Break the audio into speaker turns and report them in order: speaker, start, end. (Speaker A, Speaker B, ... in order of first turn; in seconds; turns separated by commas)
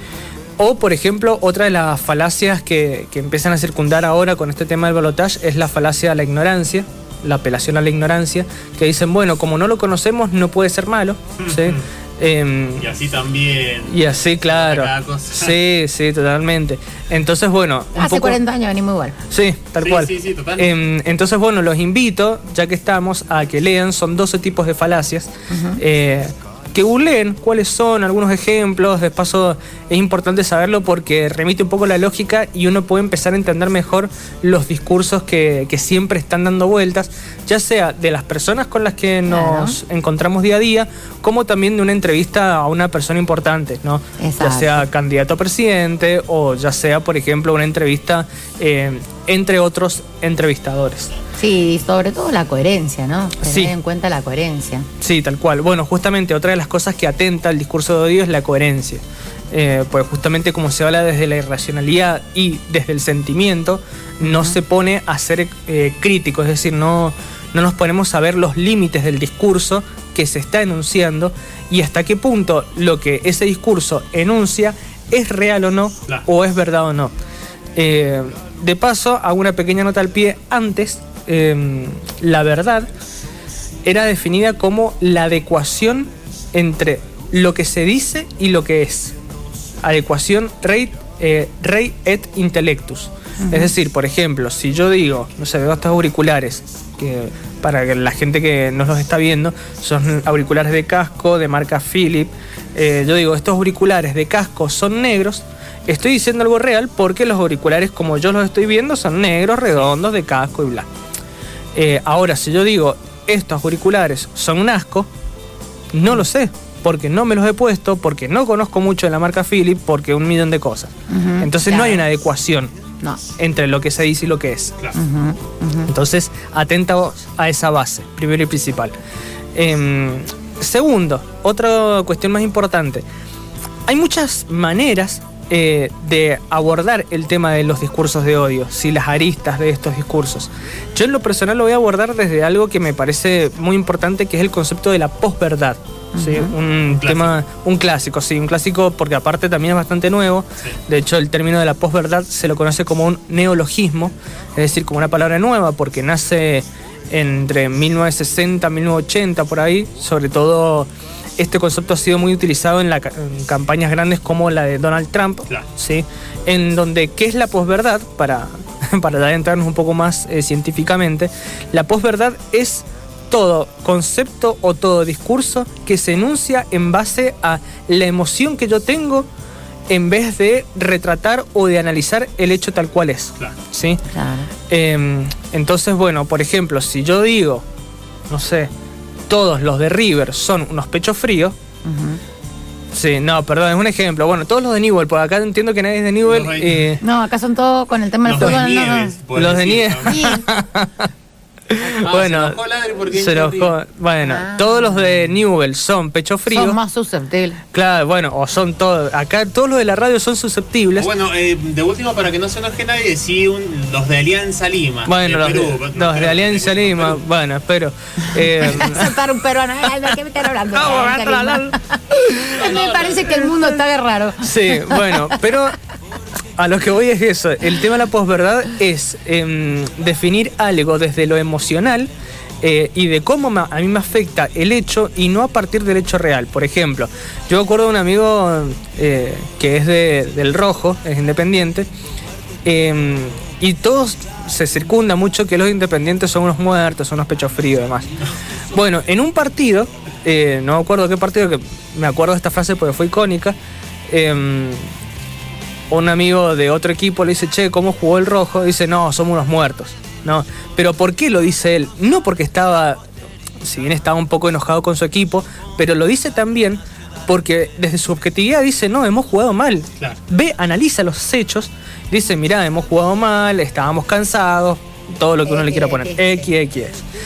Speaker A: 0.6-12.9, Speaker B: 11.4-11.8, Speaker B: 12.8-15.6, Speaker A: 13.9-18.4, Speaker C: 17.9-19.2, Speaker A: 19.3-51.1, Speaker B: 19.8-20.7, Speaker C: 25.5-25.8, Speaker C: 39.3-39.8, Speaker C: 44.2-44.9, Speaker C: 51.4-54.9, Speaker A: 53.4-53.7, Speaker A: 55.0-77.1, Speaker C: 64.2-64.6, Speaker A: 77.7-82.9, Speaker A: 83.8-89.2, Speaker A: 89.8-110.9, Speaker C: 93.4-93.7, Speaker A: 111.7-115.1, Speaker A: 115.9-122.7, Speaker C: 121.1-122.0, Speaker A: 123.4-124.8, Speaker C: 124.9-125.9, Speaker A: 125.9-128.9, Speaker A: 129.5-133.0, Speaker A: 133.8-179.3, Speaker C: 146.1-146.5, Speaker B: 146.9-147.3, Speaker A: 179.9-184.0, Speaker C: 184.1-184.5, Speaker A: 184.7-187.6, Speaker A: 188.3-188.7, Speaker A: 189.3-191.6, Speaker C: 191.8-192.2, Speaker A: 192.9-197.0, Speaker B: 196.3-196.9, Speaker C: 197.0-199.2, Speaker B: 198.2-200.3, Speaker A: 199.3-201.1, Speaker C: 200.1-200.4, Speaker A: 201.7-202.6, Speaker B: 201.8-203.7, Speaker A: 203.1-206.8, Speaker C: 204.2-205.2, Speaker C: 206.5-207.6, Speaker A: 207.7-211.1, Speaker B: 210.9-217.2, Speaker A: 215.1-219.1, Speaker C: 218.3-225.4, Speaker A: 220.7-222.6, Speaker B: 222.5-223.5, Speaker A: 224.4-225.8, Speaker A: 226.6-232.1, Speaker A: 232.6-241.9, Speaker A: 242.6-248.2, Speaker A: 248.7-253.6, Speaker A: 254.1-254.8, Speaker A: 255.9-263.0, Speaker A: 263.6-277.0, Speaker C: 275.4-276.5